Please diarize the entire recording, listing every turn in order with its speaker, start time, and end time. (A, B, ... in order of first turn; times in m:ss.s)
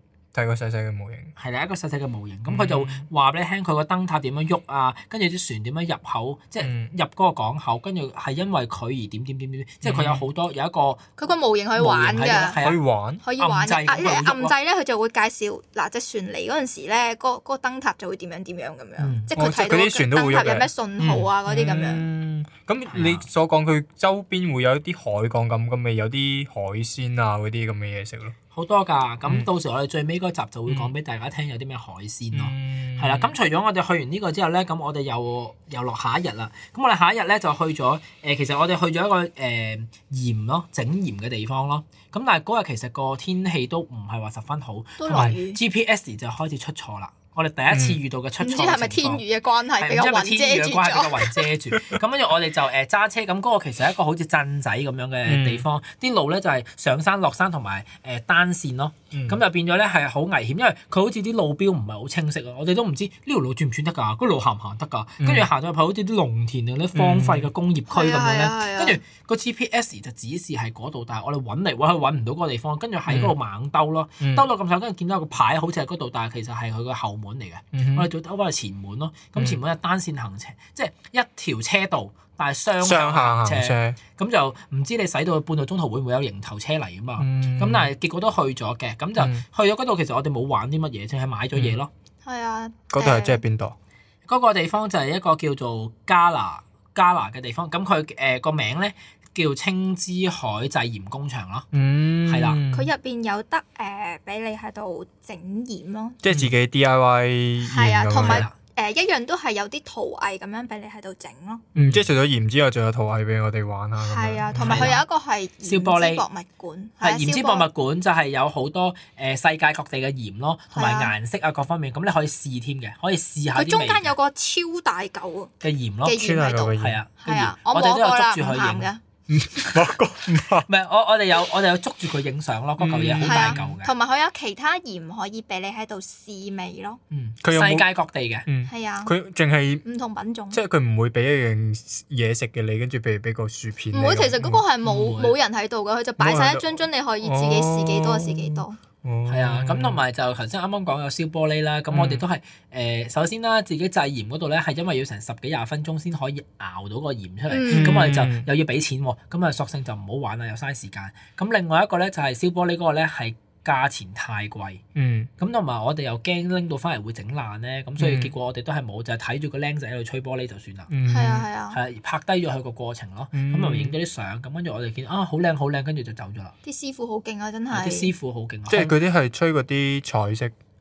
0:00.3-0:01.3 A
0:01.4-0:11.1 B
0:02.5-0:03.1 A
0:06.6-0:06.9 A
0:09.8-0:10.3 A
0:11.2-0:12.6 C
0:11.8-0:12.8 B
0:12.5-0:13.2 A
0:13.2-0:22.0 C
0:13.4-0:14.5 B
0:19.0-0:19.3 B
0:19.3-0:28.4 A
0:22.9-0:23.2 B
0:28.5-0:49.2 B
0:30.7-0:30.9 A
0:32.3-0:33.3 A
0:45.0-0:45.6 C
0:47.7-0:48.0 A
0:48.4-0:51.5 C
0:49.8-1:31.9 B
0:55.2-0:55.6 A
0:59.1-0:59.4 A
1:05.2-1:05.5 A
1:06.9-1:07.5 A
1:07.9-1:09.0 C
1:13.1-1:13.3 A
1:14.2-1:14.5 A
1:17.7-1:18.1 A
1:22.8-1:24.0 A
1:27.2-1:27.9 A
1:29.2-1:29.4 A
1:31.5-1:31.8 A
1:32.2-1:33.4 C
1:32.9-1:33.7 A
1:34.2-1:41.7 B
1:41.7-1:42.9 A
1:42.2-1:42.6 B
1:42.7-1:46.2 C
1:46.2-1:48.4 A
1:47.6-1:51.6 C
1:48.1-1:48.5 B
1:51.7-1:55.0 A
1:51.8-1:52.0 B
1:54.0-1:57.7 C
1:54.5-1:55.0 B
1:55.6-1:56.2 B
1:57.0-2:04.1 B
2:00.7-2:01.1 C
2:03.5-2:09.0 C
2:05.6-2:06.2 B
2:06.1-2:07.0 A
2:06.8-2:08.9 B
2:09.3-2:10.7 A
2:10.6-2:13.9 B
2:12.8-2:13.7 A
2:13.2-2:17.0 C
2:17.1-2:18.4 B
2:17.4-2:17.9 A
2:18.4-2:19.8 A
2:18.7-2:19.1 C
2:19.8-2:20.6 C
2:20.5-2:24.6 A
2:23.9-2:28.8 C
2:24.8-2:25.3 B
2:26.2-2:26.6 A
2:27.2-2:30.0 A
2:29.2-2:44.8 B
2:31.9-2:32.2 A
2:37.5-2:38.0 C
2:37.7-2:38.5 A
2:44.9-2:45.3 A
2:45.4-2:50.9 B
2:48.0-2:48.3 A
2:50.9-2:51.5 A
2:51.1-2:51.8 C
2:51.7-2:56.5 B
2:53.3-2:54.0 A
2:56.6-2:58.1 C
2:57.7-2:59.0 B
2:58.7-3:00.6 A